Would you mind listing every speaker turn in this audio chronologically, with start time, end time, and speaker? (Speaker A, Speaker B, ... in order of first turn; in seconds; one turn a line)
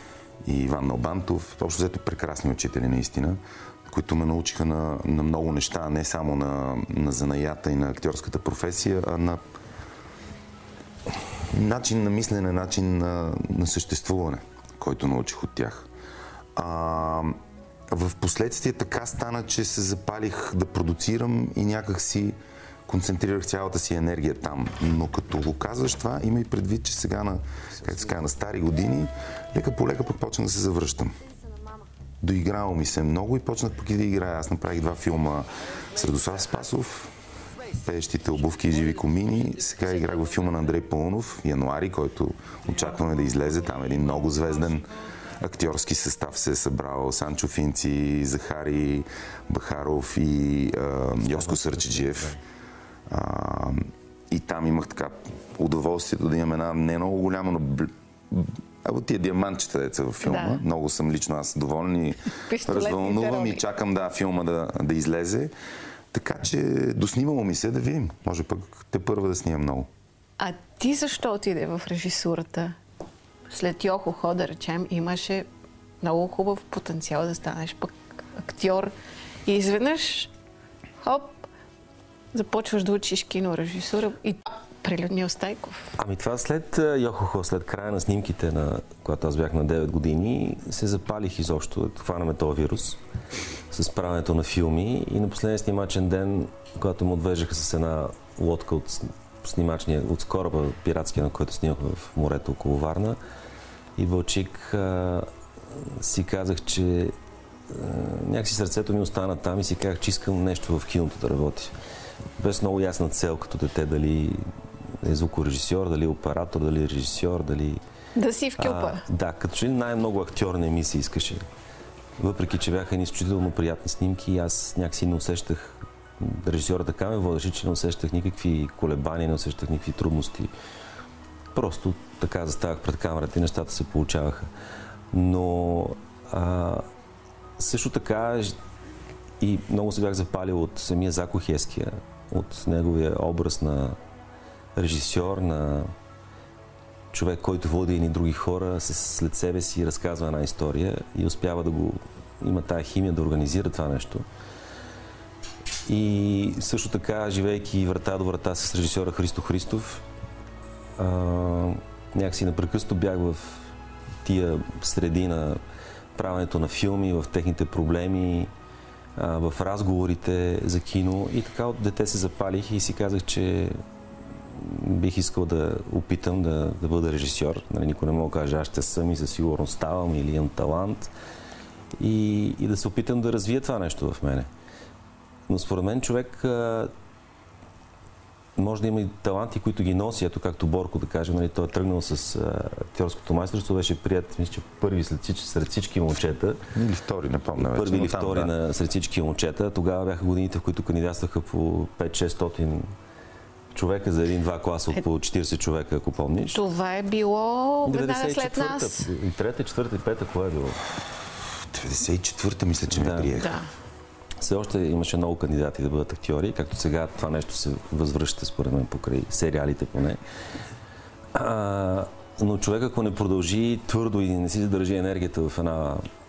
Speaker A: 0.4-9.4
Speaker A: 11.5-15.9
Speaker A: 16.6-22.4
Speaker A: 22.9-31.1
Speaker A: 32.2-37.1
Speaker A: 37.8-52.3
Speaker B: 51.2-52.4
Speaker A: 53.1-65.5
Speaker C: 60.2-60.6
Speaker C: 62.4-63.6
Speaker A: 66.1-69.9
Speaker C: 70.4-72.8
Speaker C: 73.5-75.5
Speaker C: 76.0-78.9
Speaker C: 79.5-80.3
Speaker C: 81.0-81.5
Speaker C: 82.3-85.9
Speaker B: 86.0-93.0
Speaker B: 93.7-103.2
Speaker B: 104.0-107.1
Speaker B: 107.7-111.7
Speaker B: 112.4-114.5
Speaker B: 115.0-117.8
Speaker C: 118.2-119.0
Speaker B: 118.6-121.4
Speaker B: 122.2-130.5
Speaker B: 131.5-134.5
Speaker B: 135.1-136.9
Speaker B: 137.6-138.6
Speaker B: 139.4-144.0
Speaker B: 144.8-145.9
Speaker B: 147.1-154.3
Speaker B: 155.8-160.0
Speaker B: 161.0-163.7
Speaker B: 164.2-165.6
Speaker B: 166.1-168.5
Speaker B: 169.2-173.8
Speaker B: 174.5-181.1
Speaker B: 182.0-184.5
Speaker B: 185.5-186.9
Speaker B: 188.6-196.6
Speaker A: 196.7-198.5
Speaker B: 197.6-202.9
Speaker B: 203.7-206.6
Speaker C: 206.5-209.1
Speaker B: 207.8-210.8
Speaker A: 211.7-213.6
Speaker B: 212.9-213.3
Speaker C: 213.3-213.7
Speaker B: 214.4-220.2
Speaker B: 221.3-226.0